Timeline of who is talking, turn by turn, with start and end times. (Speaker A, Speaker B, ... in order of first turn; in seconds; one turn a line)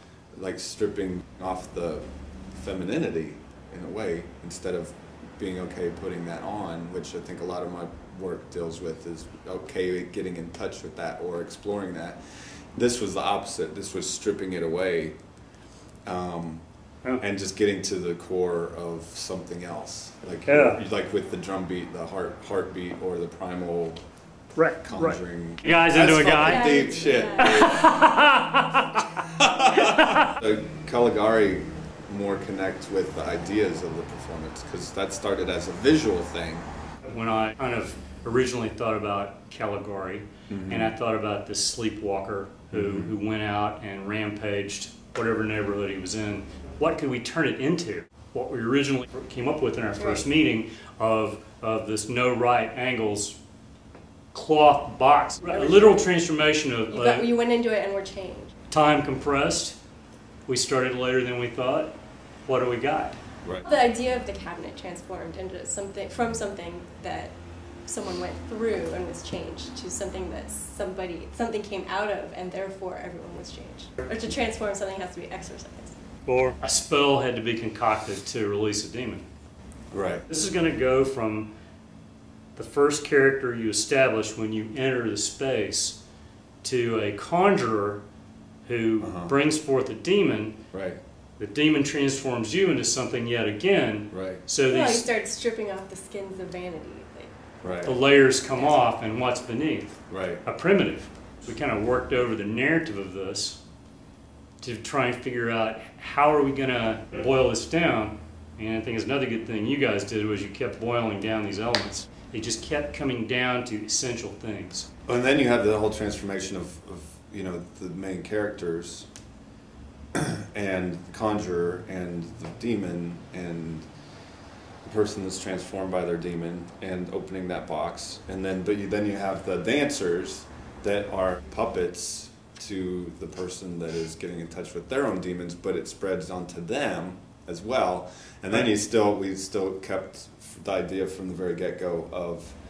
Speaker A: 0.3-12.2
Speaker A: 12.7-15.2
Speaker A: 16.1-16.6
Speaker A: 17.2-24.0
Speaker B: 20.5-20.8
Speaker B: 24.6-29.1
Speaker A: 24.8-28.0
Speaker C: 26.4-27.8
Speaker A: 29.3-36.7
Speaker B: 29.8-30.3
Speaker B: 37.1-53.4
Speaker A: 40.5-40.9
Speaker A: 42.7-43.1
Speaker C: 50.0-50.3
Speaker B: 54.3-57.3
Speaker C: 55.5-56.1
Speaker C: 56.9-58.5
Speaker B: 58.7-59.8
Speaker B: 60.5-62.0
Speaker B: 62.5-63.2
Speaker C: 63.6-76.0
Speaker B: 76.2-79.2
Speaker A: 79.9-80.2
Speaker B: 80.3-81.5
Speaker B: 82.5-86.0
Speaker B: 86.6-88.0
Speaker B: 88.6-90.6
Speaker A: 89.0-89.3
Speaker A: 90.7-91.0
Speaker B: 91.4-95.0
Speaker A: 94.1-94.4
Speaker C: 94.7-97.3
Speaker A: 97.6-97.9
Speaker B: 97.8-103.6
Speaker C: 98.5-98.9
Speaker A: 100.1-100.4
Speaker B: 104.6-114.9
Speaker A: 115.1-119.1
Speaker A: 120.1-123.9
Speaker A: 124.8-142.6